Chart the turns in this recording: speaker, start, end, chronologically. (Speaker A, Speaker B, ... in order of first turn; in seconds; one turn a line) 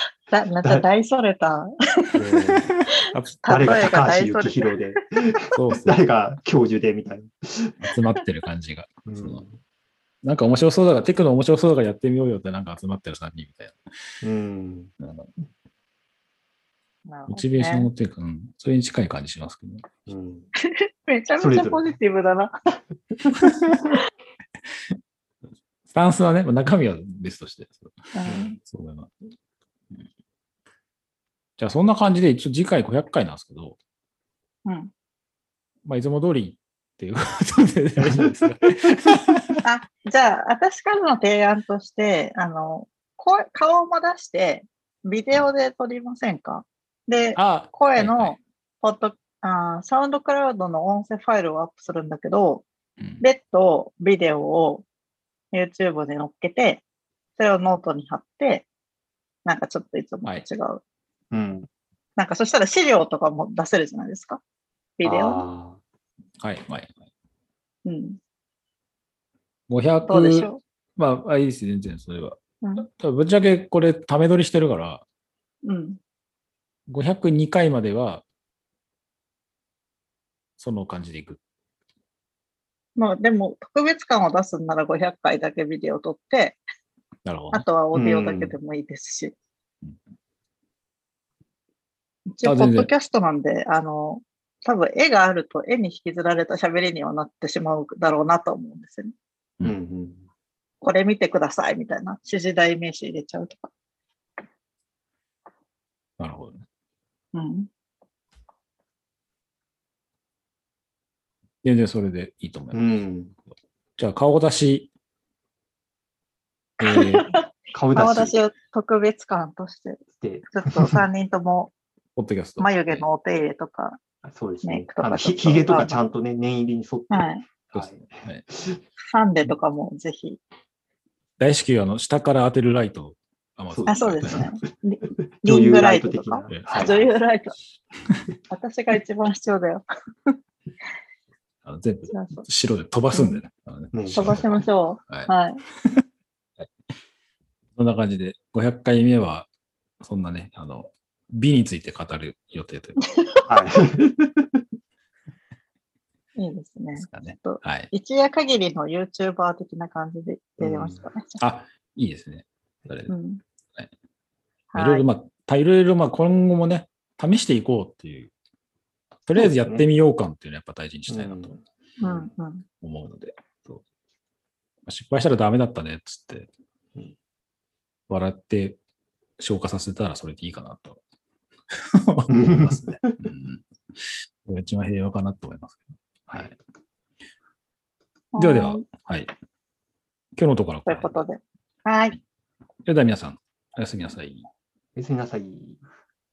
Speaker A: 0.3-2.4
Speaker B: 2.2-2.7
Speaker C: 3.1-3.9
Speaker A: 3.4-5.0
Speaker B: 3.5-7.8
Speaker C: 5.5-6.0
Speaker C: 7.8-9.4
Speaker B: 9.1-9.6
Speaker C: 10.2-13.8
Speaker B: 14.2-14.9
Speaker C: 15.0-15.3
Speaker A: 17.1-17.9
Speaker C: 17.3-20.1
Speaker B: 20.1-20.5
Speaker A: 20.6-22.5
Speaker B: 21.4-21.9
Speaker C: 25.9-29.1
Speaker A: 28.1-28.6
Speaker C: 31.6-33.8
Speaker A: 34.6-34.9
Speaker C: 35.9-39.6
Speaker B: 38.0-38.3
Speaker A: 39.6-52.6
Speaker C: 47.4-48.4
Speaker A: 53.2-54.9
Speaker A: 55.5-56.8
Speaker A: 57.4-58.7
Speaker A: 59.5-60.8
Speaker B: 61.3-61.7
Speaker A: 62.2-64.4
Speaker A: 65.0-65.4
Speaker B: 65.0-65.8
Speaker C: 66.4-67.0
Speaker A: 67.8-68.2
Speaker C: 69.7-75.0
Speaker A: 70.1-70.6
Speaker A: 72.6-72.9
Speaker A: 75.6-76.0
Speaker C: 76.9-78.2
Speaker C: 80.6-81.4
Speaker A: 83.0-86.6
Speaker C: 87.2-87.7
Speaker A: 87.5-89.3
Speaker B: 87.9-88.6
Speaker A: 92.3-99.1
Speaker C: 92.4-92.9
Speaker B: 99.6-100.3
Speaker A: 100.8-103.7
Speaker C: 106.2-106.6
Speaker A: 107.3-107.7
Speaker C: 111.6-113.0
Speaker B: 112.7-113.3
Speaker C: 114.0-114.9
Speaker C: 116.8-117.3
Speaker A: 116.8-121.7
Speaker B: 117.7-118.3
Speaker B: 120.2-121.0
Speaker C: 122.2-123.1
Speaker A: 122.6-124.0
Speaker B: 124.2-128.8
Speaker A: 124.6-126.0
Speaker A: 127.1-127.4
Speaker C: 127.7-128.4
Speaker A: 129.1-130.4
Speaker C: 131.4-134.5
Speaker B: 133.7-134.7
Speaker A: 133.9-137.6
Speaker B: 135.4-136.9
Speaker C: 136.5-137.1
Speaker A: 138.5-140.4
Speaker C: 141.6-145.3
Speaker A: 142.1-142.4
Speaker A: 143.1-143.4
Speaker B: 143.9-144.4
Speaker A: 144.1-145.6
Speaker C: 147.8-149.5
Speaker C: 150.0-153.1
Speaker A: 153.2-153.5
Speaker B: 153.5-154.6
Speaker A: 156.4-161.4
Speaker C: 157.0-157.9
Speaker B: 160.6-161.0
Speaker C: 161.4-163.1
Speaker A: 163.1-163.4
Speaker A: 164.7-165.1
Speaker C: 164.8-168.3
Speaker C: 169.3-171.6
Speaker B: 169.3-169.8
Speaker B: 171.1-172.2
Speaker A: 172.0-172.7
Speaker C: 172.8-173.8
Speaker C: 174.9-176.5
Speaker C: 178.1-178.8
Speaker C: 179.4-181.0
Speaker C: 181.7-186.6
Speaker B: 182.3-183.2
Speaker A: 188.3-188.8
Speaker C: 188.4-189.3
Speaker C: 190.3-191.2
Speaker A: 190.9-192.2
Speaker C: 192.8-194.5
Speaker B: 195.0-195.8